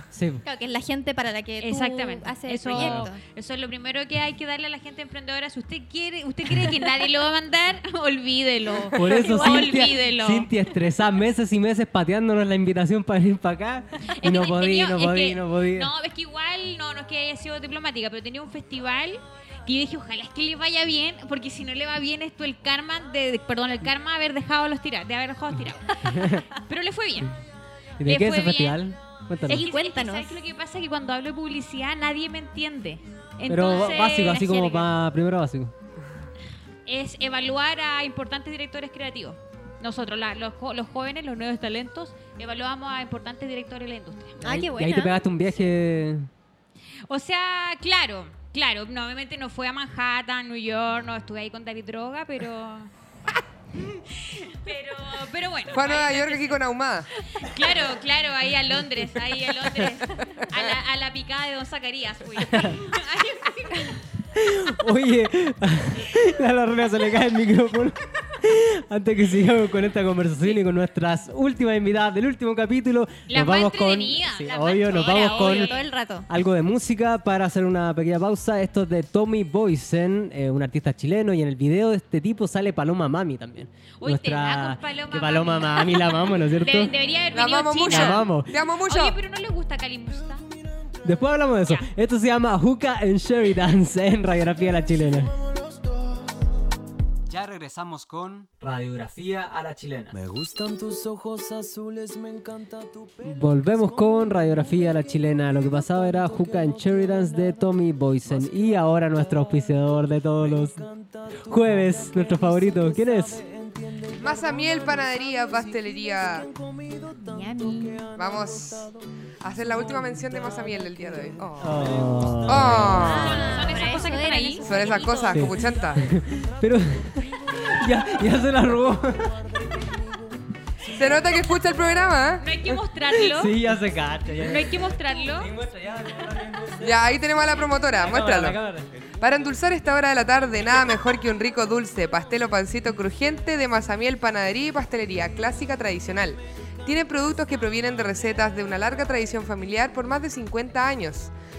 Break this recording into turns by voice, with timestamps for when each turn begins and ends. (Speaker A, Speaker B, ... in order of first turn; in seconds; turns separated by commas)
Speaker A: 0.1-0.4, Speaker B: 0.4-3.2, Speaker C: 1.6-10.5, Speaker A: 2.7-3.0, Speaker A: 8.9-15.9, Speaker B: 9.0-9.9, Speaker C: 14.1-27.3, Speaker A: 26.1-26.4, Speaker A: 28.0-29.6, Speaker C: 28.0-28.9, Speaker C: 29.5-34.9, Speaker B: 29.5-30.4, Speaker A: 33.5-35.7, Speaker C: 36.9-44.4, Speaker B: 44.4-45.2, Speaker A: 44.4-46.3, Speaker C: 47.1-52.9, Speaker C: 53.7-56.6, Speaker D: 55.7-57.1, Speaker C: 57.3-64.0, Speaker A: 62.5-62.8, Speaker A: 64.3-75.8, Speaker C: 73.3-75.8, Speaker B: 74.7-76.3, Speaker A: 76.3-86.9, Speaker C: 84.0-90.4, Speaker D: 87.3-89.2, Speaker A: 87.9-88.5, Speaker A: 91.0-95.4, Speaker A: 97.3-100.2, Speaker E: 100.1-103.3, Speaker A: 103.2-110.8, Speaker E: 106.2-107.3, Speaker E: 110.5-115.0, Speaker A: 111.4-113.4, Speaker D: 114.2-116.5, Speaker E: 116.4-118.6, Speaker B: 117.2-118.1, Speaker D: 118.2-118.9, Speaker D: 119.4-121.9, Speaker A: 121.6-123.3, Speaker E: 121.8-122.7, Speaker D: 122.5-123.5, Speaker B: 122.9-125.6, Speaker C: 123.1-124.7, Speaker D: 124.7-126.0, Speaker A: 125.3-129.5, Speaker D: 130.9-132.5, Speaker C: 132.4-133.6, Speaker A: 133.1-137.0, Speaker C: 134.3-135.5, Speaker D: 136.8-138.6, Speaker A: 137.9-138.9, Speaker D: 139.2-151.3